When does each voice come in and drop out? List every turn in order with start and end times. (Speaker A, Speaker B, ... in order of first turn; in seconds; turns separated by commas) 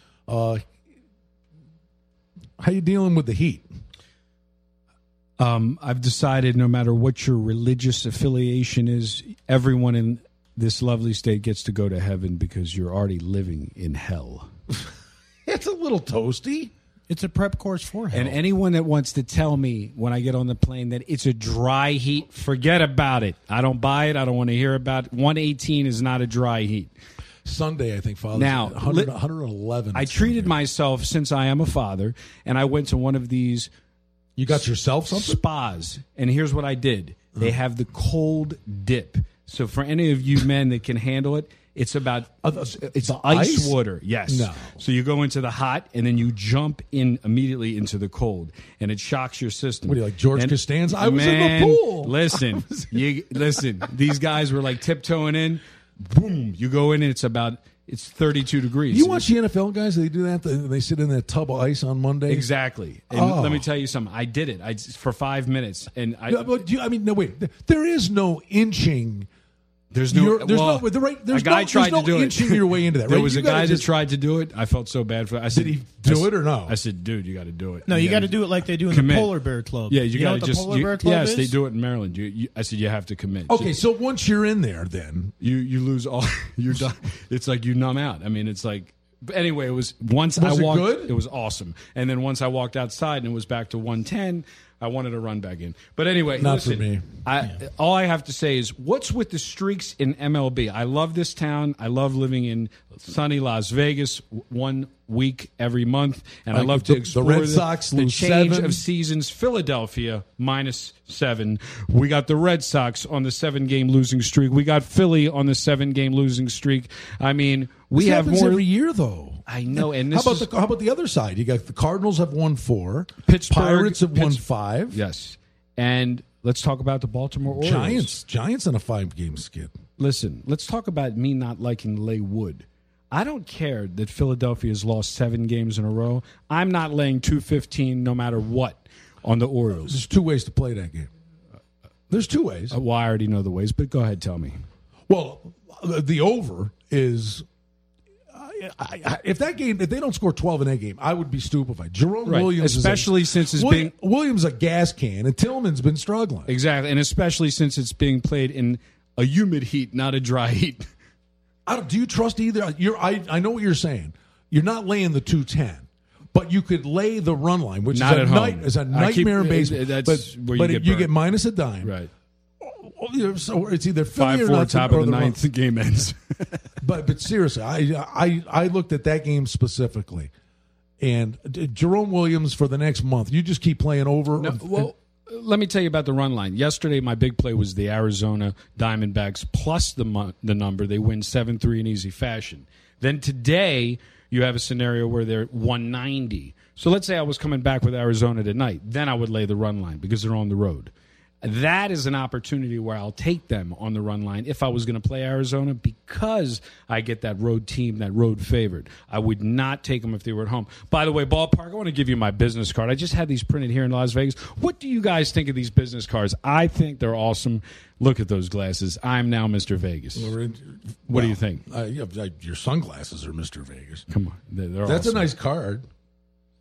Speaker A: 0.3-0.6, Speaker A: 2.6-3.7, Speaker B: 5.4-14.5, Speaker A: 15.5-16.7, Speaker C: 17.1-18.4, Speaker B: 18.1-26.9, Speaker A: 27.4-30.6, Speaker B: 28.3-29.1, Speaker B: 29.9-33.7, Speaker A: 34.4-35.4, Speaker B: 35.1-59.3, Speaker A: 42.4-43.8, Speaker A: 44.3-44.8, Speaker A: 49.9-53.0, Speaker A: 58.9-62.5, Speaker B: 62.3-66.6, Speaker A: 63.1-63.7, Speaker A: 66.3-69.3, Speaker B: 69.9-79.4, Speaker A: 70.1-73.9, Speaker A: 75.5-76.8, Speaker C: 77.9-81.5, Speaker B: 79.9-83.7, Speaker A: 83.5-85.3, Speaker B: 85.4-118.7, Speaker A: 90.4-91.2, Speaker A: 96.3-97.2, Speaker A: 106.5-108.8, Speaker A: 118.0-125.0, Speaker B: 119.5-120.5, Speaker B: 123.3-128.2, Speaker A: 127.5-129.8, Speaker B: 130.0-140.0, Speaker A: 139.8-141.1, Speaker A: 142.1-142.8, Speaker B: 142.7-144.6, Speaker A: 145.1-147.4, Speaker A: 148.3-156.5, Speaker B: 152.3-153.9, Speaker B: 156.5-160.9, Speaker A: 161.7-171.9, Speaker B: 167.9-171.1, Speaker B: 171.8-172.1, Speaker A: 172.6-175.4, Speaker B: 174.2-176.7, Speaker A: 176.8-180.3, Speaker A: 181.0-184.9, Speaker B: 184.4-200.9, Speaker B: 201.4-220.3, Speaker A: 220.2-224.1, Speaker B: 221.1-221.6, Speaker B: 224.1-225.3, Speaker A: 224.8-225.8